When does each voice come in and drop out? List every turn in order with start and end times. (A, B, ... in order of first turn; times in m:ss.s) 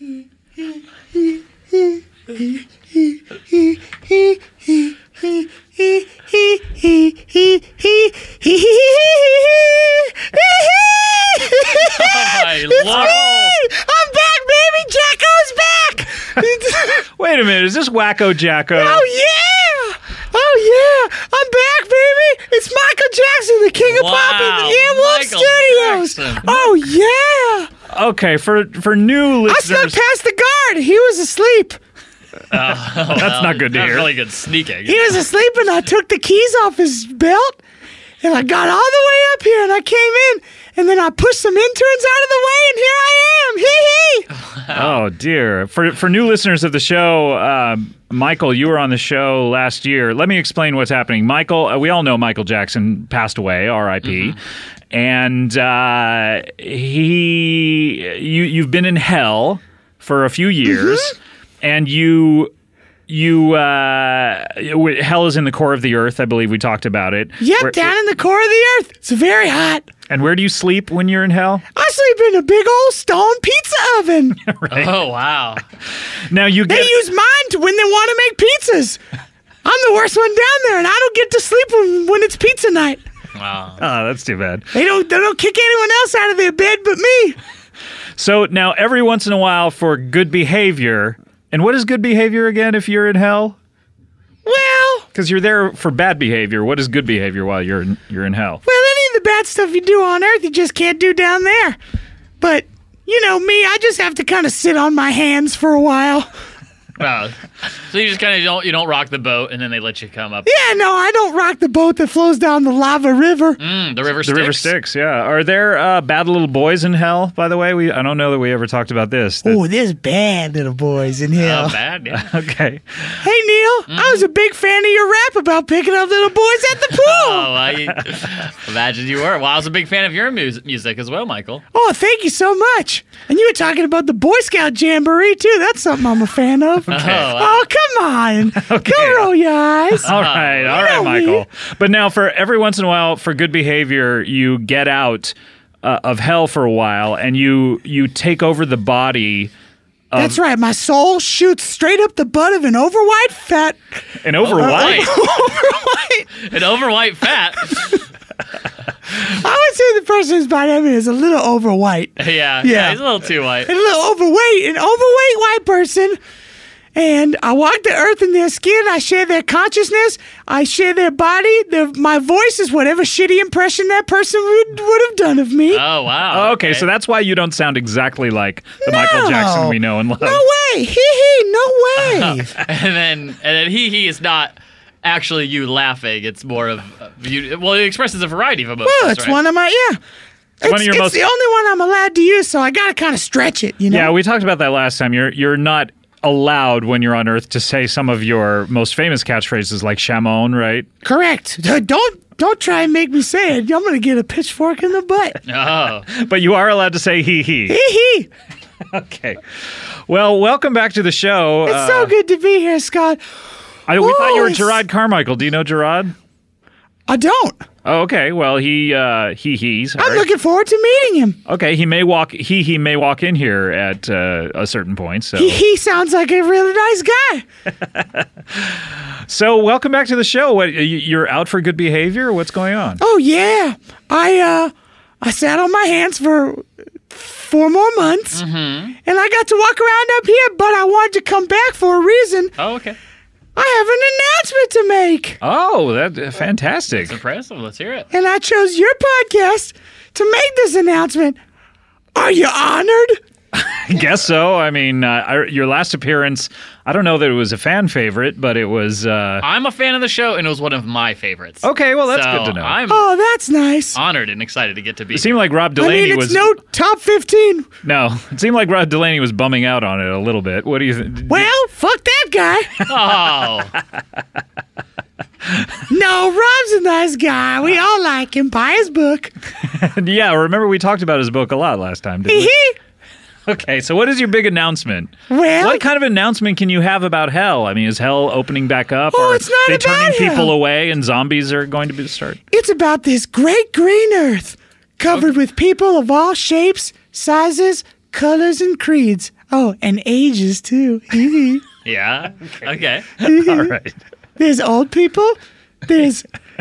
0:01.2-0:17.1 A
0:11.7-0:13.2 B
0:12.8-0:13.6 C
0:17.2-0:19.0 C
0:18.8-0:27.7 A
0:23.8-0:26.7 B
0:27.9-0:30.0 C
0:29.5-0:31.8 A
0:32.5-0:35.2 B
0:32.7-0:34.1 C
0:34.8-0:37.6 A
0:38.2-0:44.3 A
0:44.4-0:45.0 B
0:44.7-0:54.4 C
0:54.0-0:54.4 B
0:54.9-1:02.5 C
1:00.6-1:01.2 A
1:03.1-1:07.9 C
1:07.4-1:09.9 A
1:10.1-1:11.6 C
1:11.8-1:14.4 A
1:14.4-1:15.0 C
1:14.7-1:15.6 B
1:16.3-1:17.0 C
1:16.7-1:19.0 A
1:19.6-1:23.0 A
1:23.4-1:23.8 B
1:23.8-1:24.7 C
1:24.7-1:27.4 A
1:28.2-1:33.6 C
1:34.4-1:35.1 A
1:35.1-1:38.6 C
1:38.6-1:41.8 A
1:42.4-1:46.3 A
1:47.0-1:50.8 B
1:50.4-1:53.6 A
1:53.6-1:54.7 B
1:54.2-1:59.6 C
1:59.4-2:01.8 A
2:01.4-2:02.3 B
2:02.1-2:03.3 C
2:03.2-2:07.6 A
2:03.9-2:04.3 B
2:06.9-2:11.6 B
2:11.7-2:20.1 A
2:16.9-2:17.3 C
2:16.9-2:17.7 B
2:18.6-2:19.3 C
2:20.0-2:29.5 C
2:20.1-2:21.0 B
2:20.7-2:21.4 A
2:30.1-2:30.4 C
2:30.1-2:36.3 A
2:34.2-2:35.1 C
2:34.4-2:35.2 B
2:36.4-2:38.0 B
2:39.1-2:43.0 A
2:42.2-2:43.7 B
2:43.6-2:46.2 A
2:47.0-2:55.8 A
2:55.7-2:56.9 B
2:56.3-3:00.4 C
2:58.8-3:02.5 A
3:02.0-3:09.4 B
3:08.8-3:10.0 A
3:10.6-3:14.1 A
3:10.6-3:11.2 C
3:13.9-3:20.9 C
3:21.0-3:25.4 A
3:25.5-3:26.1 B
3:26.0-3:27.8 C
3:27.7-3:28.3 A
3:28.9-3:32.1 C
3:31.6-3:33.2 A
3:33.9-3:36.2 C
3:34.0-3:34.8 A
3:37.1-3:37.7 A
3:37.8-3:40.3 C
3:40.0-3:41.4 A
3:41.5-3:45.6 C
3:45.4-3:47.4 A
3:47.9-3:53.0 C
3:53.0-3:58.4 A
3:58.3-3:59.0 B
3:59.0-4:02.5 A
4:02.6-4:03.0 B
4:03.6-4:05.4 A
4:05.4-4:07.2 C
4:07.0-4:08.1 B
4:08.1-4:11.4 A
4:12.2-4:13.2 A
4:13.5-4:19.4 C
4:19.4-4:23.1 B
4:21.6-4:22.8 C
4:22.9-4:24.0 A
4:23.9-4:25.3 B
4:25.1-4:26.5 C
4:25.8-4:27.7 A
4:27.8-4:31.5 C
4:31.3-4:32.8 A
4:32.9-4:33.2 C
4:32.9-4:33.7 B
4:35.4-4:35.7 C
4:35.9-4:39.3 A
4:39.6-4:42.5 C
4:42.3-4:42.8 A
4:43.5-4:52.4 C
4:45.3-4:45.8 A
4:49.1-4:50.5 A
4:52.5-5:01.6 A
5:01.8-5:03.2 B
5:03.2-5:03.7 A
5:03.2-5:04.0 C
5:04.4-5:06.3 A